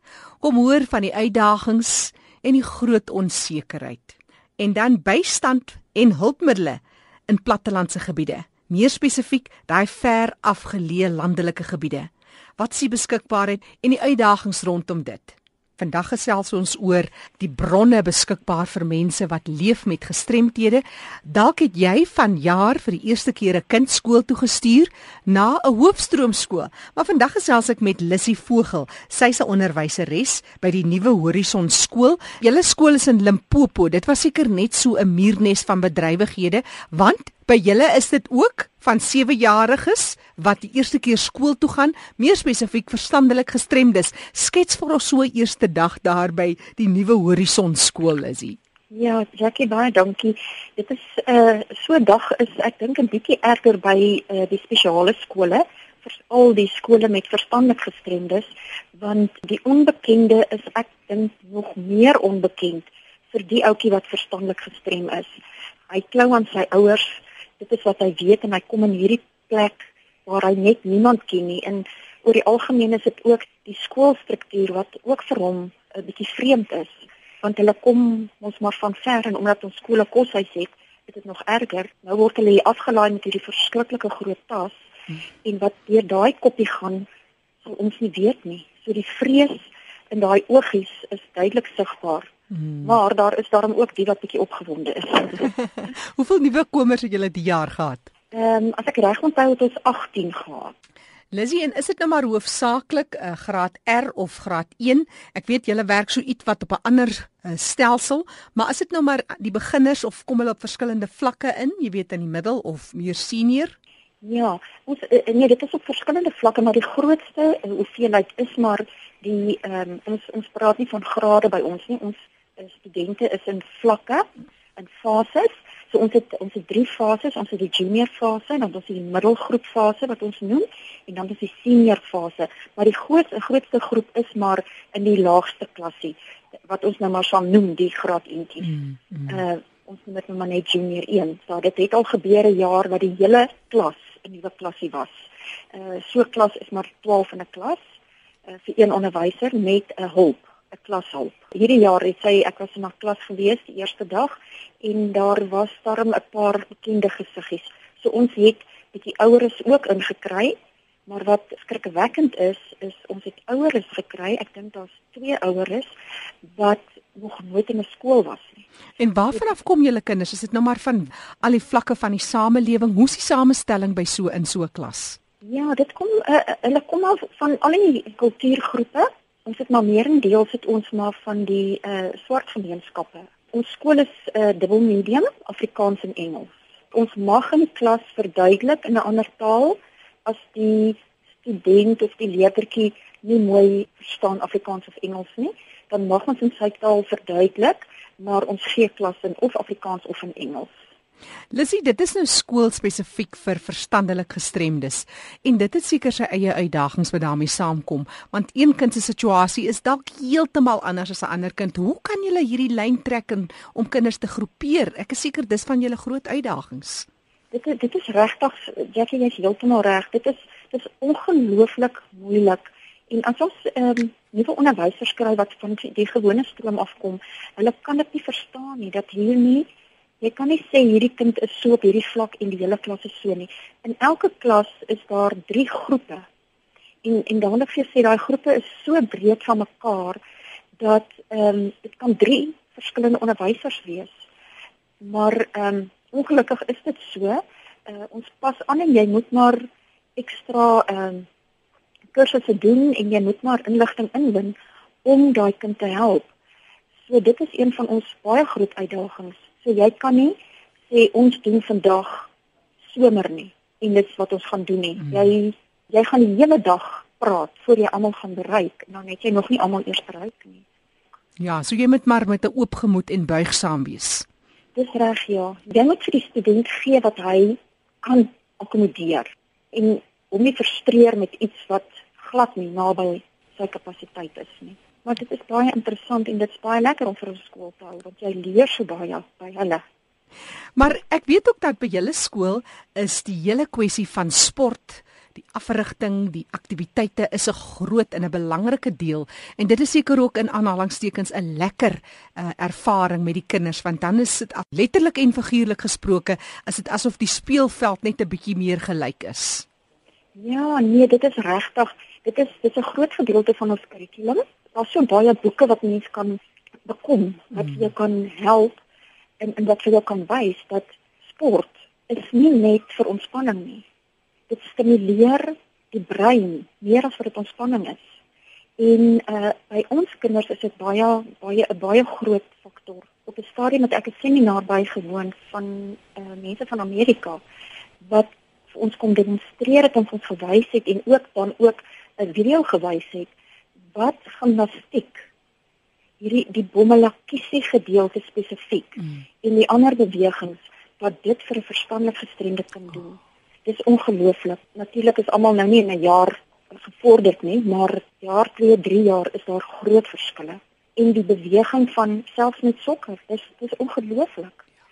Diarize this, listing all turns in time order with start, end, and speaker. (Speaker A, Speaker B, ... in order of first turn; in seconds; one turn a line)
Speaker A: 0.4-48.6
Speaker B: 48.9-65.3
Speaker B: 65.9-84.7
Speaker B: 85.4-87.1
Speaker B: 87.6-92.3
Speaker B: 92.8-95.5
Speaker A: 96.0-98.1
Speaker B: 98.3-100.7
Speaker A: 101.3-113.8
Speaker B: 114.2-145.2
Speaker B: 145.7-147.8
Speaker B: 148.5-160.6
Speaker B: 161.1-165.9
Speaker B: 166.5-168.6
Speaker A: 169.0-175.2
Speaker B: 175.4-200.7
Speaker A: 201.5-217.1
Speaker B: 217.5-229.7
Speaker B: 230.2-236.3
Speaker B: 237.0-240.2
Speaker B: 240.8-244.1
Speaker B: 245.0-249.6
Speaker B: 250.2-251.3
Speaker B: 252.1-256.3
Speaker B: 257.1-260.4
Speaker B: 260.9-262.3
Speaker B: 262.9-270.6
Speaker A: 271.4-274.3
Speaker B: 274.8-289.8
Speaker A: 290.8-309.7
Speaker B: 310.4-318.8
Speaker B: 319.4-323.9
Speaker B: 324.5-328.0
Speaker B: 328.8-337.4
Speaker B: 338.0-343.3
Speaker B: 343.9-345.2
Speaker B: 346.2-364.6